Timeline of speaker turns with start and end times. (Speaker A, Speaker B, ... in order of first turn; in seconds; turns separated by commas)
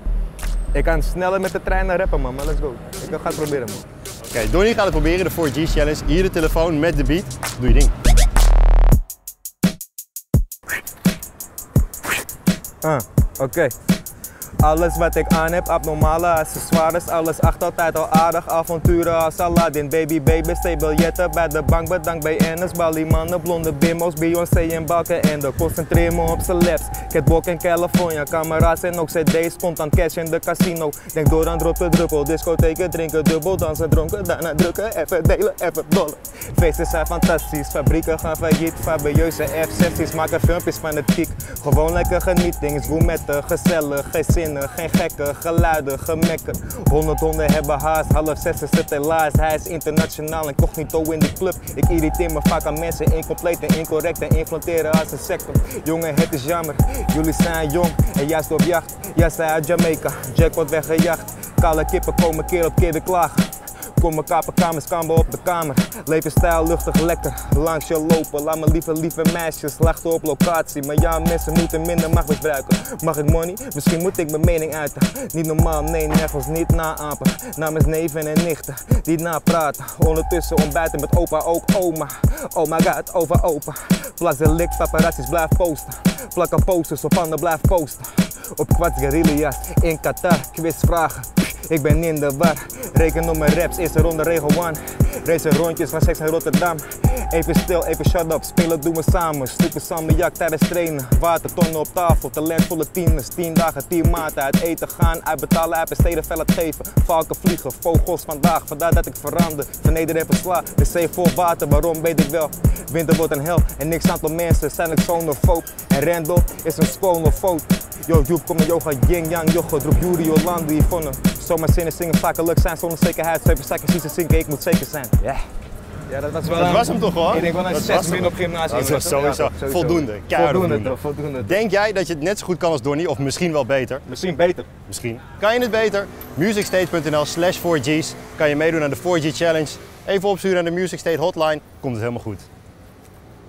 Speaker A: 0.7-3.8, Speaker B: 4.2-7.9, Speaker A: 12.8-13.7, Speaker A: 14.6-125.4, Speaker A: 126.1-131.5, Speaker B: 126.5-134.0, Speaker A: 134.1-134.7, Speaker B: 134.9-142.4